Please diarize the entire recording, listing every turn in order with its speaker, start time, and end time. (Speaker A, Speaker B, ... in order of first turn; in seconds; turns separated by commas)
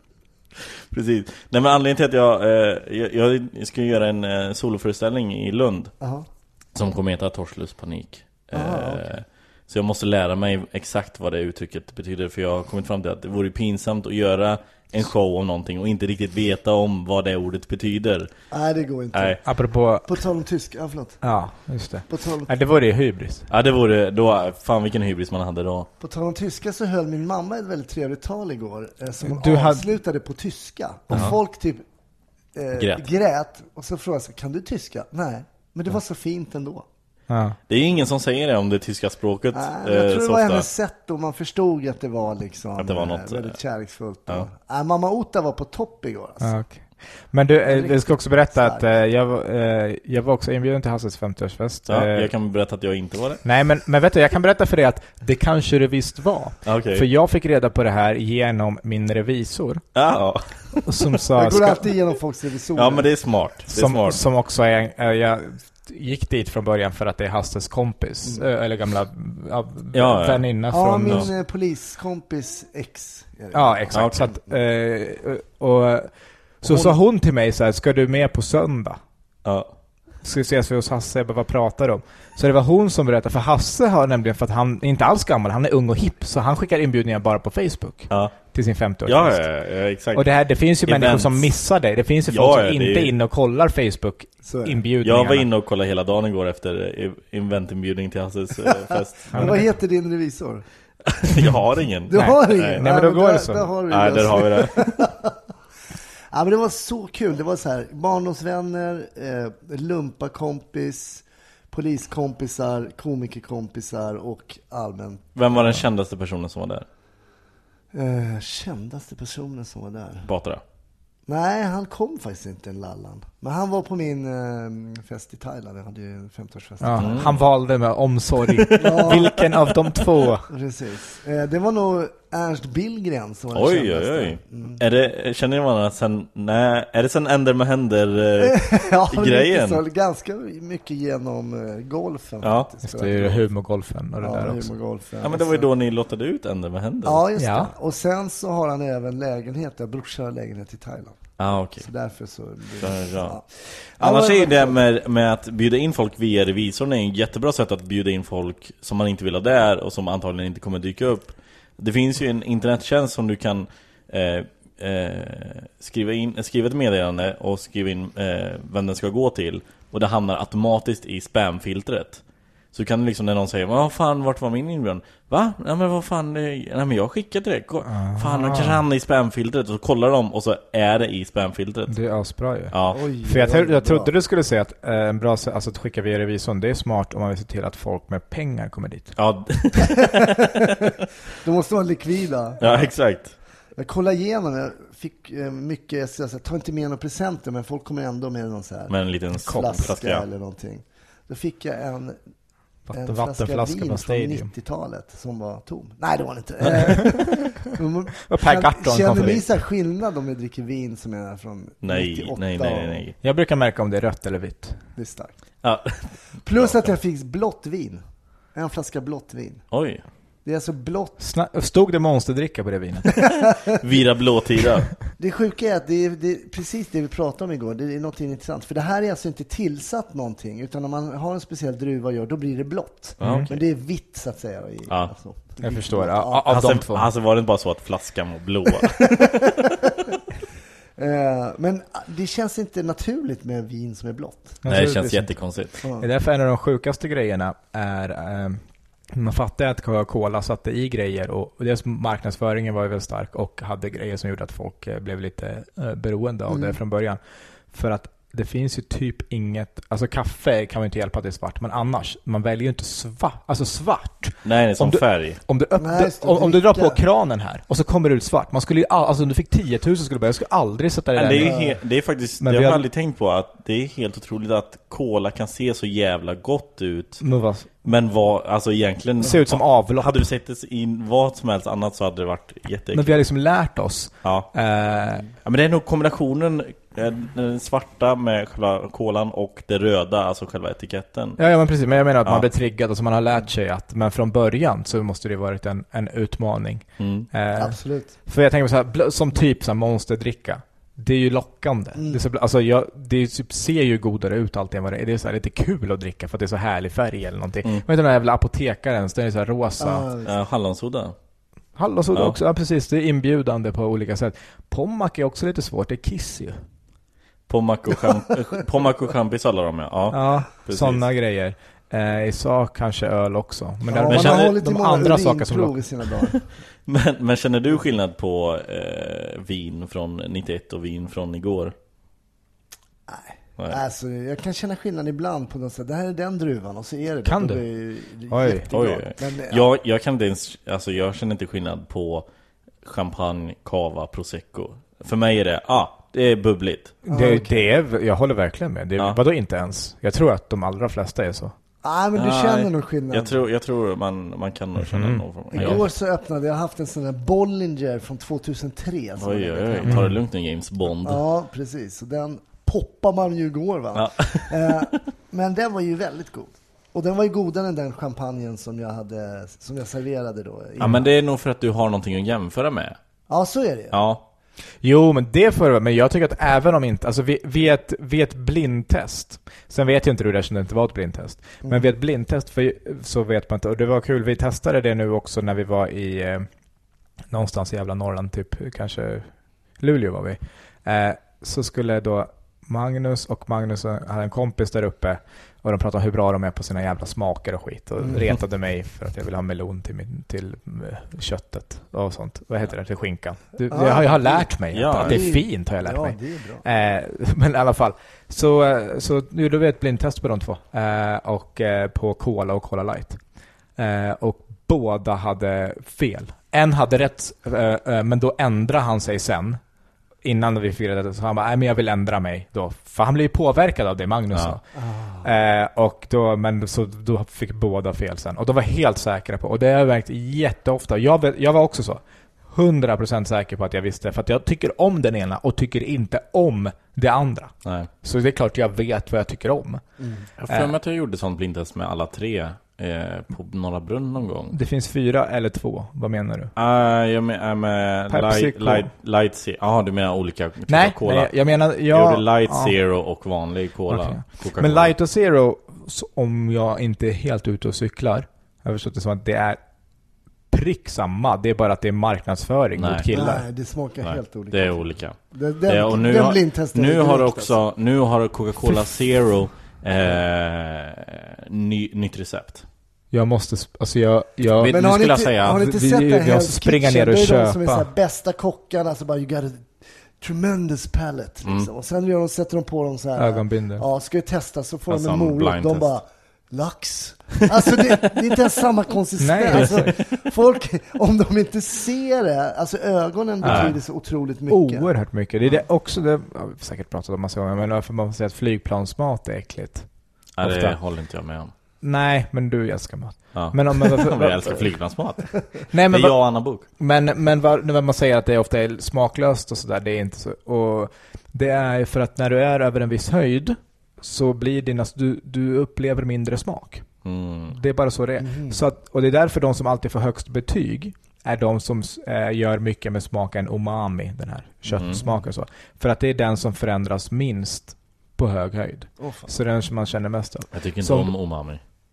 Speaker A: 0.7-5.9, Speaker B: 6.0-6.3, Speaker A: 6.8-18.3, Speaker B: 8.5-9.1, Speaker B: 18.5-19.4, Speaker A: 19.1-19.4, Speaker C: 19.4-20.2, Speaker B: 20.1-21.2, Speaker C: 21.2-23.5, Speaker B: 22.1-22.5, Speaker A: 23.5-25.9, Speaker B: 26.0-31.8, Speaker C: 29.2-29.9, Speaker B: 32.5-36.9, Speaker A: 32.8-33.0, Speaker C: 37.3-37.6, Speaker A: 37.7-40.7, Speaker B: 39.5-46.5, Speaker A: 42.8-43.6, Speaker C: 46.4-52.3, Speaker B: 47.6-48.9, Speaker A: 51.9-53.4, Speaker C: 53.5-59.8, Speaker A: 56.7-57.1, Speaker A: 60.0-61.1, Speaker C: 60.9-61.9, Speaker B: 61.4-63.1, Speaker A: 62.8-64.2, Speaker C: 63.7-71.3, Speaker A: 69.9-70.5, Speaker B: 70.7-74.1, Speaker C: 73.5-79.0, Speaker A: 73.9-74.4, Speaker B: 76.7-77.0, Speaker C: 80.2-89.5, Speaker A: 88.1-88.4, Speaker A: 89.1-90.3, Speaker C: 90.1-95.5, Speaker A: 90.8-91.5, Speaker A: 92.3-93.1, Speaker B: 94.4-94.8, Speaker A: 95.0-99.7, Speaker C: 99.3-99.7, Speaker B: 99.3-100.6, Speaker A: 101.2-102.8, Speaker C: 102.1-103.7, Speaker B: 102.1-105.3, Speaker A: 103.9-105.1, Speaker B: 106.3-115.8, Speaker A: 115.4-116.9, Speaker B: 117.9-120.3, Speaker A: 120.2-120.6, Speaker B: 121.3-127.3, Speaker C: 126.8-130.5, Speaker A: 127.0-127.4, Speaker A: 128.5-129.2, Speaker B: 128.8-129.4, Speaker B: 130.5-134.8, Speaker A: 133.5-139.8, Speaker B: 138.4-143.4, Speaker A: 142.4-142.7, Speaker C: 142.8-144.7, Speaker B: 144.2-145.7, Speaker A: 145.2-147.2, Speaker B: 147.1-151.2, Speaker C: 147.4-147.7, Speaker A: 151.4-151.9, Speaker B: 151.8-153.4, Speaker A: 152.8-172.2, Speaker B: 154.0-154.8, Speaker A: 172.7-182.0, Speaker C: 177.9-178.8, Speaker C: 181.9-189.2, Speaker A: 182.7-183.0, Speaker B: 182.9-184.1, Speaker A: 189.2-190.5, Speaker B: 189.9-190.8, Speaker B: 191.4-192.9, Speaker A: 192.6-193.3, Speaker B: 193.8-202.2, Speaker A: 198.9-200.2, Speaker C: 199.5-199.8, Speaker C: 202.9-204.5, Speaker B: 202.9-213.0, Speaker C: 208.3-209.5, Speaker A: 211.8-213.2, Speaker C: 213.2-214.8, Speaker B: 215.0-215.3, Speaker A: 215.6-216.8, Speaker B: 216.4-218.0, Speaker B: 218.6-219.6, Speaker A: 219.7-220.0, Speaker B: 220.4-221.2, Speaker C: 221.2-223.2, Speaker A: 223.8-224.9, Speaker B: 225.2-236.5, Speaker A: 233.2-233.6, Speaker C: 233.2-233.5, Speaker C: 235.6-237.1, Speaker A: 236.5-239.2, Speaker B: 239.0-239.9, Speaker B: 241.0-244.6, Speaker C: 244.6-245.5, Speaker A: 244.7-245.8, Speaker B: 245.8-246.1, Speaker C: 246.0-248.6, Speaker C: 249.1-257.2, Speaker B: 256.5-256.8, Speaker C: 257.7-271.6, Speaker A: 264.4-265.4, Speaker B: 265.8-267.0, Speaker A: 271.1-277.2, Speaker B: 271.4-271.8, Speaker C: 272.4-272.8, Speaker C: 277.2-277.7, Speaker A: 277.8-283.2, Speaker C: 279.2-280.3, Speaker C: 282.9-285.3, Speaker A: 284.2-284.5, Speaker A: 285.4-291.4, Speaker C: 291.4-310.1, Speaker A: 297.0-297.3, Speaker B: 297.6-298.1, Speaker B: 302.0-302.2, Speaker B: 309.8-310.3, Speaker A: 310.2-311.1, Speaker C: 311.8-316.6, Speaker A: 317.5-321.0, Speaker C: 320.1-325.8, Speaker B: 323.9-326.4, Speaker A: 324.1-324.5, Speaker A: 326.9-331.7, Speaker B: 333.1-339.7, Speaker C: 337.2-337.6, Speaker C: 338.3-338.7, Speaker A: 338.7-342.3, Speaker A: 342.8-346.9, Speaker C: 347.1-351.6, Speaker B: 347.1-347.7, Speaker B: 351.8-353.4, Speaker A: 352.1-355.9, Speaker C: 354.8-355.8, Speaker B: 355.5-360.0, Speaker A: 359.2-361.2, Speaker C: 359.8-360.2, Speaker B: 361.0-371.1, Speaker A: 363.9-364.9, Speaker A: 370.8-373.0, Speaker B: 373.3-374.0, Speaker A: 373.9-374.2, Speaker C: 374.8-386.5, Speaker B: 381.6-381.9, Speaker C: 387.3-413.2, Speaker B: 403.7-406.6, Speaker A: 404.7-405.2, Speaker C: 413.8-419.6, Speaker C: 420.2-424.6, Speaker B: 424.8-425.3, Speaker C: 425.2-439.8, Speaker B: 440.0-440.3, Speaker A: 440.4-444.6, Speaker C: 444.5-446.5, Speaker A: 446.6-454.9, Speaker C: 448.1-448.9, Speaker C: 450.7-452.8, Speaker C: 453.9-459.6, Speaker C: 460.5-463.5, Speaker A: 462.8-463.1, Speaker B: 463.1-467.6, Speaker A: 464.0-472.6, Speaker C: 473.1-474.9, Speaker A: 474.6-475.7, Speaker B: 474.7-494.9, Speaker C: 475.4-477.9, Speaker C: 483.2-483.9, Speaker A: 484.9-485.9, Speaker C: 489.2-490.0, Speaker C: 493.4-493.8, Speaker A: 493.4-493.8, Speaker C: 494.5-499.9, Speaker A: 500.4-501.5, Speaker C: 500.4-500.8, Speaker C: 501.8-504.7, Speaker A: 503.3-506.7, Speaker C: 505.7-516.9, Speaker A: 517.0-517.6, Speaker C: 517.5-531.1, Speaker B: 518.2-518.6, Speaker A: 524.7-525.0, Speaker B: 525.0-525.3, Speaker B: 529.0-529.3, Speaker A: 530.5-531.6